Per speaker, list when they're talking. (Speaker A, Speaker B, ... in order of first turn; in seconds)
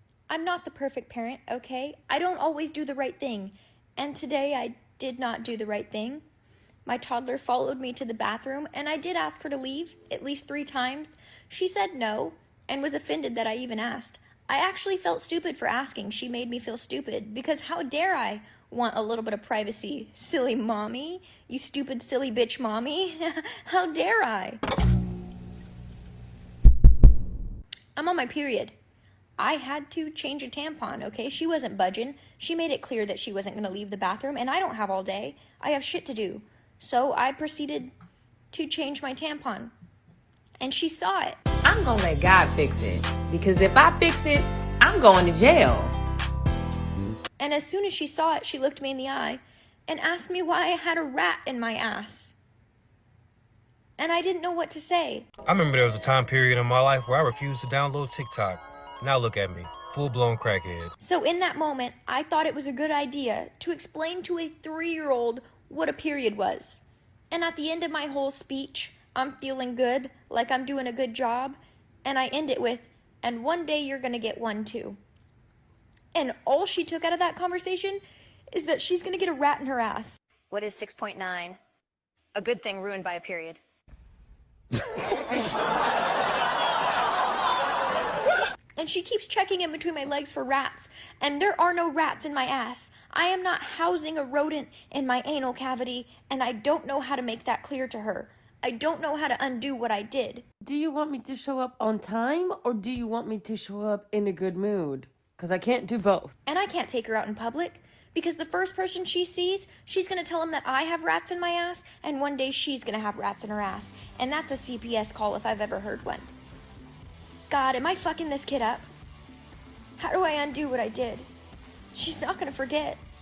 Speaker A: 0.3-6.2, 6.8-24.6, 27.9-28.7, 29.4-37.9, 38.5-39.7, 40.6-41.4, 47.4-52.3, 54.0-55.3, 61.0-75.0, 76.1-78.0, 78.5-80.2, 88.8-100.4, 106.5-116.3, 117.5-118.8, 120.0-121.3, 121.9-123.0
Speaker B: 41.6-45.9
Speaker C: 55.5-60.9
Speaker D: 80.5-81.6, 82.3-83.6
Speaker E: 100.6-106.3